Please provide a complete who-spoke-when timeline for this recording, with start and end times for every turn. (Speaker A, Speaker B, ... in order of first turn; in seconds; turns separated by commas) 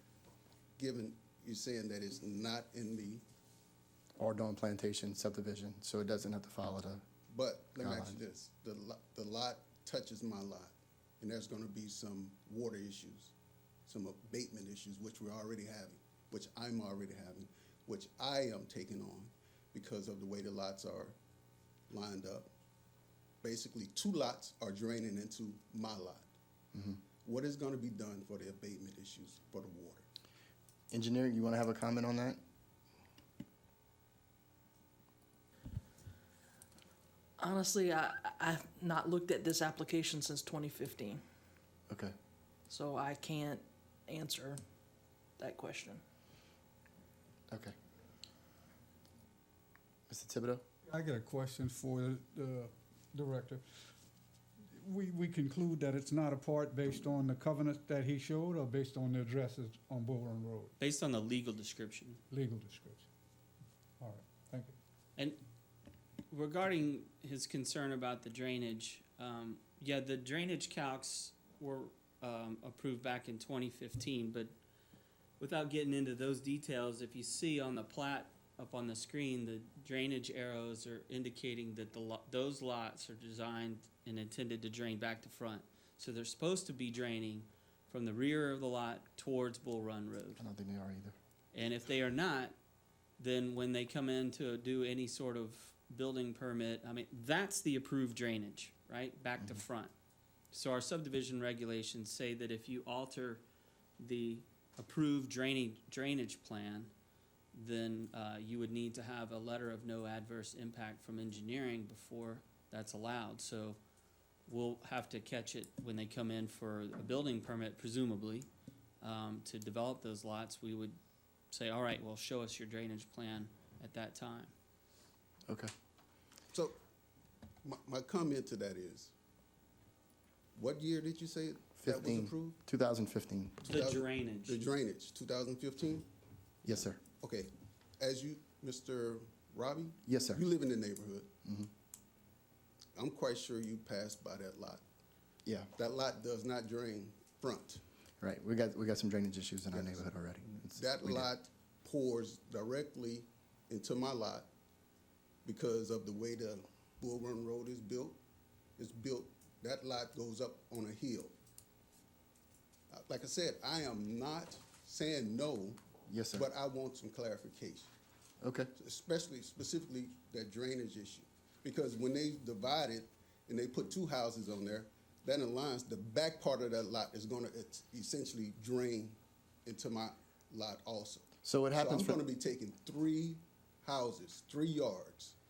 Speaker A: 0.8-3.2, Speaker B: 4.2-7.0, Speaker A: 7.3-13.3, Speaker B: 7.8-8.2, Speaker A: 13.8-21.1, Speaker A: 21.9-22.5, Speaker A: 23.4-26.3, Speaker A: 27.2-30.1, Speaker B: 30.9-32.4, Speaker C: 37.4-41.2, Speaker B: 41.9-42.1, Speaker C: 42.7-44.6, Speaker C: 45.4-46.0, Speaker B: 47.5-47.7, Speaker B: 50.1-50.6, Speaker D: 50.9-53.6, Speaker D: 54.7-60.7, Speaker E: 60.8-62.2, Speaker D: 62.3-63.0, Speaker D: 64.0-64.7, Speaker E: 65.2-65.4, Speaker E: 66.3-74.5, Speaker E: 75.4-90.4, Speaker B: 90.4-91.2, Speaker E: 91.5-92.5, Speaker E: 93.2-99.9, Speaker E: 100.5-103.4, Speaker E: 104.0-106.9, Speaker E: 107.5-113.8, Speaker E: 114.5-118.5, Speaker E: 119.0-121.0, Speaker E: 121.5-124.5, Speaker A: 127.6-129.1, Speaker A: 130.5-132.6, Speaker B: 131.8-133.6, Speaker A: 133.6-136.1, Speaker E: 133.6-134.6, Speaker B: 136.6-137.0, Speaker A: 137.2-141.3, Speaker B: 140.1-140.4, Speaker B: 141.4-141.7, Speaker A: 142.9-144.8, Speaker A: 145.7-147.8, Speaker B: 148.2-151.3, Speaker A: 149.7-150.1, Speaker A: 150.7-154.5, Speaker A: 155.4-158.2, Speaker A: 158.8-161.3, Speaker A: 162.9-165.8, Speaker B: 166.1-166.5, Speaker A: 166.3-167.9, Speaker B: 168.4-168.7, Speaker A: 168.7-185.3, Speaker B: 181.4-182.2